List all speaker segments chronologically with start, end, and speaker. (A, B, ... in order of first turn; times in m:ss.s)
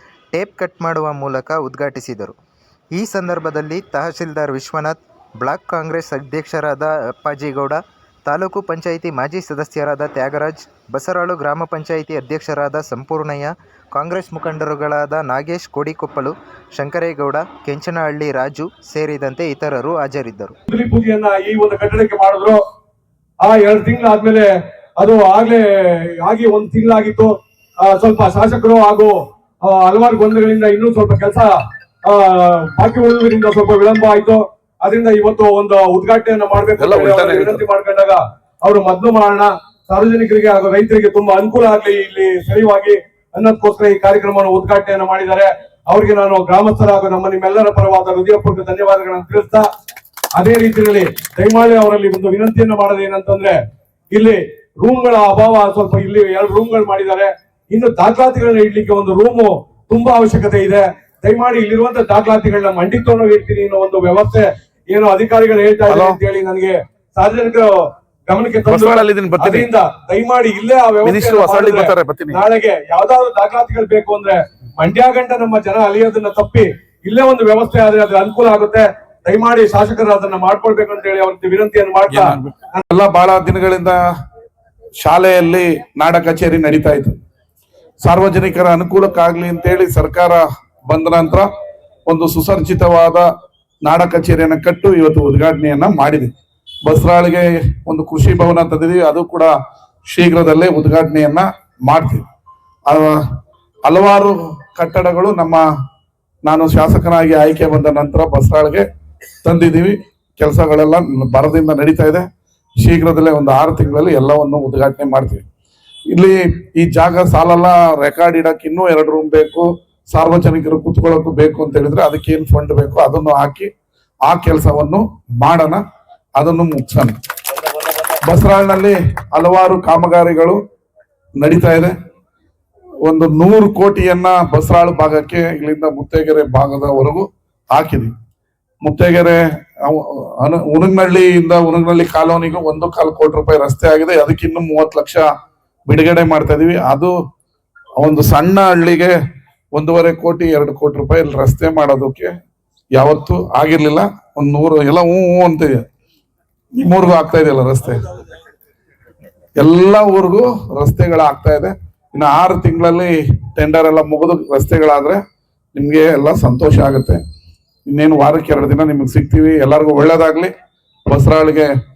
0:00.3-0:02.4 A
0:03.0-0:20.6 A
0:20.7-0:22.6 B
0:23.4-0:27.3 B
0:27.8-0:31.5 B
0:32.0-0:49.7 B
0:36.8-0:37.6 C
0:50.4-0:53.6 B
0:54.1-1:07.7 B
1:05.9-1:06.2 C
1:08.3-1:22.8 B
1:08.7-1:09.7 C
1:11.0-1:12.4 C
1:22.1-1:24.0 C
1:25.0-1:27.1 C
1:28.0-1:31.5 C
1:32.1-1:33.2 C
1:33.8-1:36.3 C
1:36.8-1:39.5 C
1:40.1-1:42.2 C
1:42.9-1:43.2 C
1:43.9-1:45.6 C
1:46.4-1:48.8 C
1:49.4-1:52.2 C
1:52.8-1:55.4 C
1:56.1-2:03.7 C
2:04.3-2:05.8 C
2:06.4-2:07.1 C
2:08.2-2:10.6 C
2:11.4-2:11.9 C
2:13.0-2:18.1 C
2:18.8-2:25.2 C
2:25.9-2:27.1 C
2:28.0-2:29.1 C
2:29.8-2:32.3 C
2:33.0-2:35.7 C
2:36.8-2:38.0 C
2:39.6-2:45.2 C
2:45.8-2:47.2 C
2:47.9-2:50.5 C
2:51.1-2:51.7 C